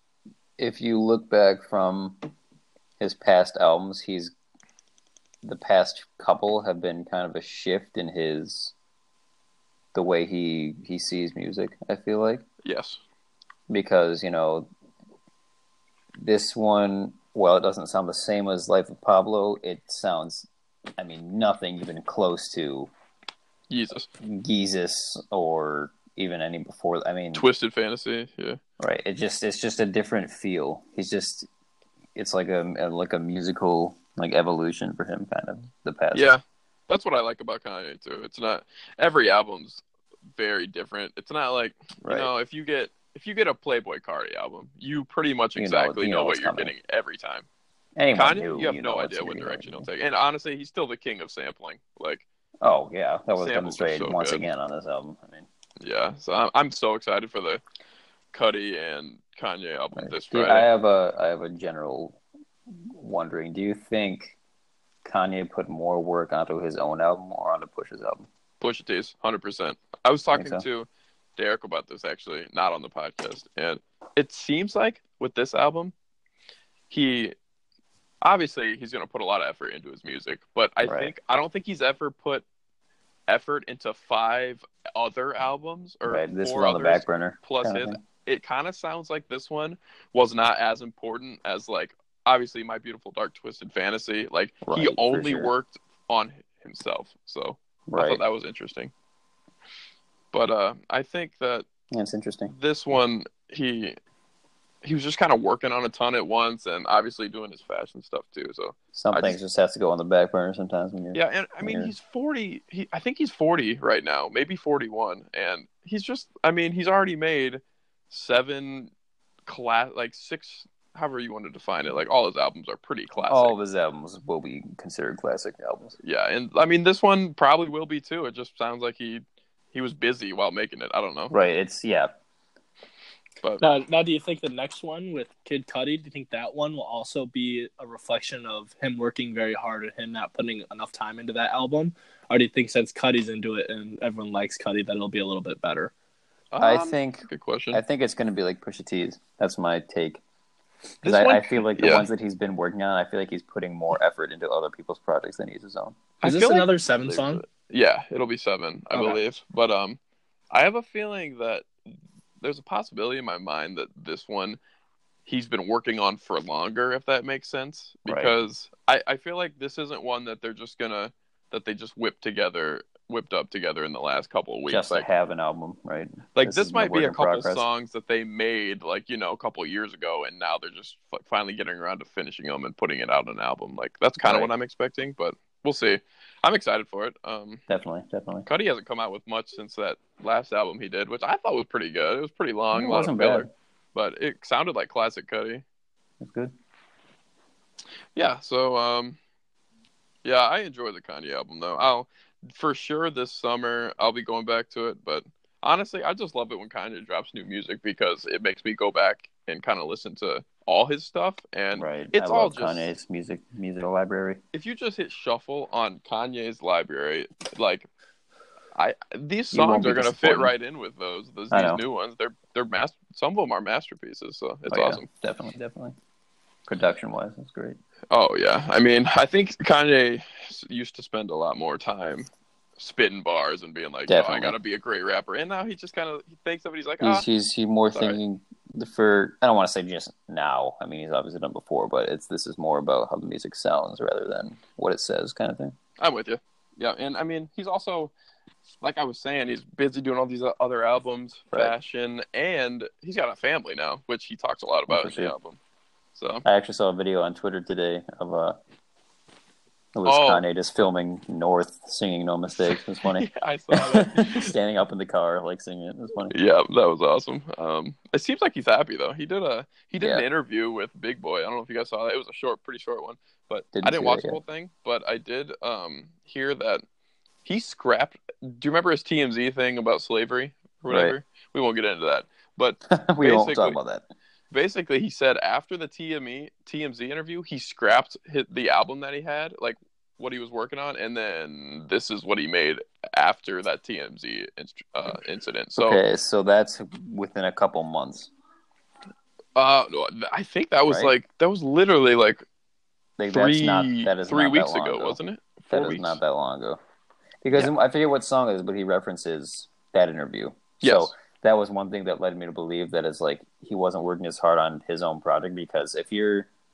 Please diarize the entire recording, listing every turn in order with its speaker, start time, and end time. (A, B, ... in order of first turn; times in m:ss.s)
0:00.6-0:02.2 A
0:03.0-0:04.3 A
0:05.4-0:08.7 A
0:09.9-0:12.4 A
0:12.6-0:13.0 B
0:13.7-0:14.7 A
0:16.2-0:22.9 A
0:23.7-0:24.1 B
0:24.2-0:27.4 A
0:27.3-0:28.6 B
0:28.8-0:31.5 A
0:32.2-0:36.3 A
0:36.1-0:39.8 B
0:40.3-0:47.4 B
0:42.0-0:42.3 A
0:45.6-0:46.7 A
0:48.0-0:49.9 A
0:48.1-0:52.2 B
0:52.6-0:55.5 A
0:53.4-0:54.4 B
0:55.8-0:57.6 B
0:58.3-1:00.7 B
1:00.0-1:02.2 A
1:02.8-1:04.4 A
1:05.0-1:08.3 A
1:08.6-1:15.9 B
1:10.3-1:10.6 A
1:16.9-1:17.3 B
1:18.2-1:22.4 B
1:20.8-1:21.1 A
1:23.3-1:38.9 B
1:26.0-1:28.0 A
1:34.6-1:35.5 A
1:37.9-1:38.2 A
1:40.3-1:41.6 B
1:41.9-1:42.5 A
1:42.5-1:44.0 B
1:44.8-1:49.4 B
1:48.9-1:51.9 A
1:51.1-1:58.9 B
1:59.4-2:03.5 B
2:03.2-2:06.0 A
2:06.0-2:11.3 B
2:11.3-2:12.1 A
2:13.6-2:25.9 C
2:26.5-2:27.8 B
2:26.6-2:30.2 A
2:31.0-2:32.1 B
2:31.0-2:36.0 A
2:36.2-2:40.0 B
2:36.2-2:37.4 C
2:40.5-2:41.7 B
2:42.4-2:44.6 B
2:45.2-2:55.0 B
2:48.0-2:48.3 A
2:54.7-2:57.6 A
2:56.3-3:07.6 B
3:04.2-3:04.5 A
3:07.7-3:08.5 A
3:08.4-3:15.6 B
3:12.7-3:13.5 A
3:16.2-3:16.5 A
3:18.2-3:19.2 B
3:20.2-3:32.9 B
3:31.7-3:34.4 A
3:34.5-3:37.9 B
3:38.7-3:45.1 B
3:39.5-3:40.5 A
3:41.5-3:41.8 A
3:44.7-3:46.0 A
3:46.7-3:47.8 A
3:48.1-3:57.2 B
3:54.1-3:54.6 A
3:57.0-4:05.8 A
3:57.9-3:58.2 B
4:06.0-4:08.1 B
4:08.8-4:15.6 B
4:14.9-4:15.3 A
4:16.2-4:16.4 B
4:16.4-4:18.6 A
4:19.9-4:26.4 A
4:20.0-4:20.4 B
4:23.1-4:24.5 B
4:26.3-4:36.8 B
4:30.0-4:30.2 A
4:33.7-4:34.4 A
4:37.4-4:43.8 B
4:40.9-4:41.2 A
4:42.9-4:44.1 A
4:44.5-4:56.0 B
4:55.8-4:58.3 A
4:59.6-5:02.4 B
5:00.9-5:01.1 A
5:03.2-5:05.2 A
5:03.3-5:06.2 B
5:05.7-5:06.8 A
5:07.4-5:16.5 A
5:10.8-5:11.1 B